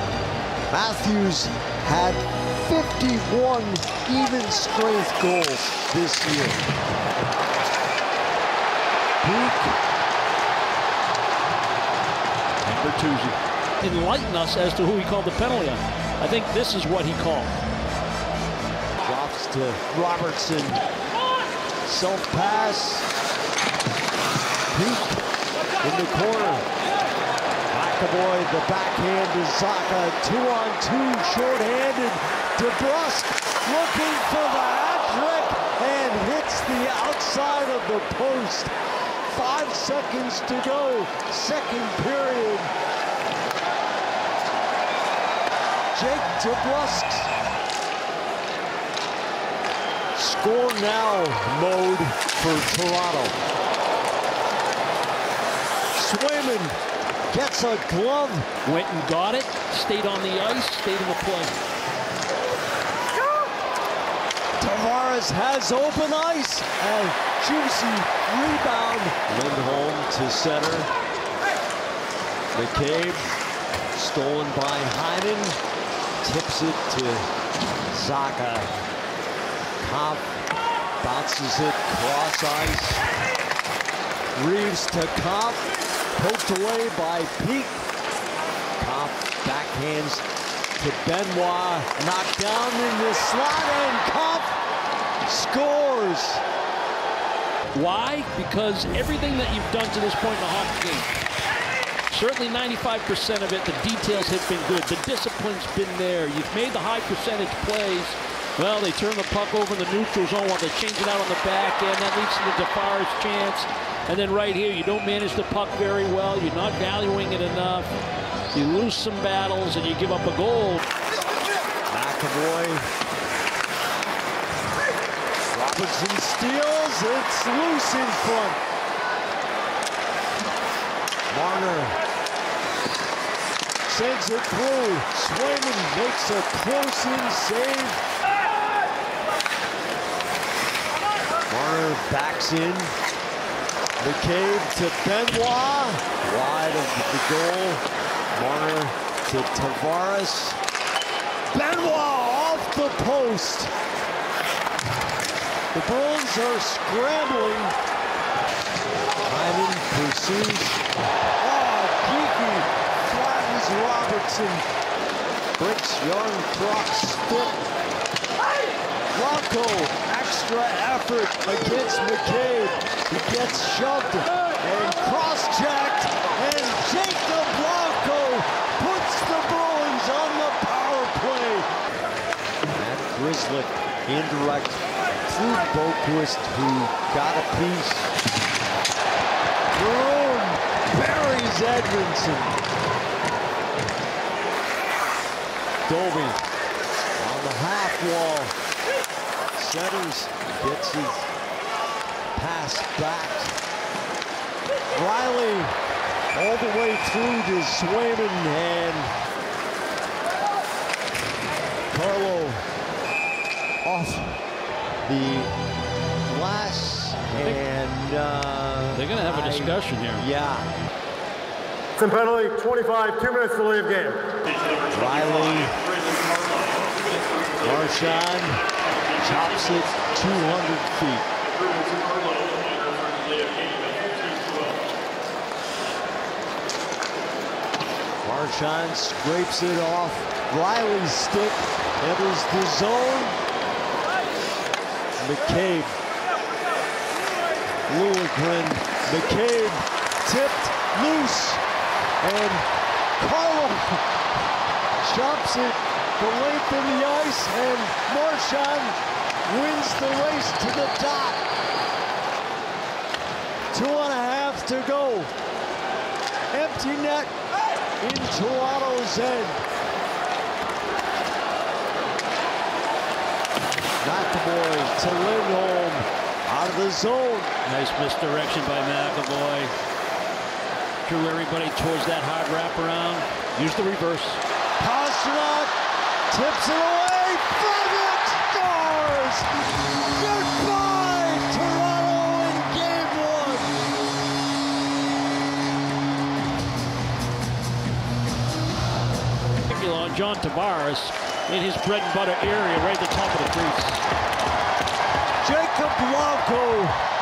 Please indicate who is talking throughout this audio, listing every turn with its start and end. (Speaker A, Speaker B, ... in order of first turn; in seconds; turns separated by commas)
Speaker A: 0.7-6.6, Speaker A: 9.2-9.8, Speaker B: 12.6-17.5, Speaker A: 19.0-20.8, Speaker A: 21.8-23.1, Speaker A: 24.7-25.2, Speaker A: 25.8-26.7, Speaker A: 27.7-38.7, Speaker A: 39.3-42.7, Speaker A: 45.9-47.3, Speaker A: 50.1-53.3, Speaker A: 55.9-56.7, Speaker A: 57.3-58.5, Speaker B: 58.6-61.5, Speaker A: 64.6-70.9, Speaker A: 72.5-73.2, Speaker A: 73.9-75.6, Speaker A: 76.2-77.2, Speaker A: 77.9-78.7, Speaker A: 79.8-80.3, Speaker A: 81.0-83.0, Speaker A: 84.3-85.6, Speaker A: 86.2-87.8, Speaker A: 88.8-90.2, Speaker A: 90.8-94.5, Speaker A: 95.2-96.4, Speaker B: 97.7-101.1, Speaker B: 102.1-117.9, Speaker B: 118.5-120.8, Speaker A: 121.9-122.8, Speaker A: 125.5-128.6, Speaker A: 131.3-132.0, Speaker A: 133.9-138.0, Speaker A: 141.5-142.9, Speaker A: 144.0-147.8, Speaker A: 148.3-150.6, Speaker A: 151.5-153.7, Speaker A: 155.7-157.8, Speaker A: 159.2-160.8, Speaker A: 161.4-164.6, Speaker A: 165.6-167.6, Speaker A: 169.1-181.7, Speaker A: 182.8-188.1, Speaker A: 189.7-192.6, Speaker A: 195.9-196.4, Speaker A: 197.2-198.5, Speaker A: 199.5-201.3, Speaker A: 202.3-203.5, Speaker A: 204.9-205.7, Speaker A: 206.3-209.1, Speaker A: 211.9-212.6, Speaker A: 213.8-214.3, Speaker A: 215.1-215.5, Speaker A: 216.2-220.7, Speaker B: 218.9-220.3, Speaker C: 222.0-224.3, Speaker B: 224.4-228.2, Speaker A: 224.9-225.7, Speaker A: 227.6-228.6, Speaker B: 229.1-230.1, Speaker A: 229.2-231.3, Speaker B: 231.4-234.7, Speaker A: 238.2-243.4, Speaker A: 245.2-245.9, Speaker A: 247.9-251.6, Speaker A: 252.2-252.6, Speaker A: 253.2-254.0, Speaker A: 255.0-261.4, Speaker A: 263.7-265.3, Speaker A: 266.5-267.3, Speaker A: 268.0-269.6, Speaker A: 274.0-277.5, Speaker B: 277.6-279.7, Speaker B: 281.1-284.4, Speaker A: 284.8-285.7, Speaker A: 286.3-289.5, Speaker A: 290.1-293.7, Speaker B: 299.6-304.0, Speaker A: 305.4-306.9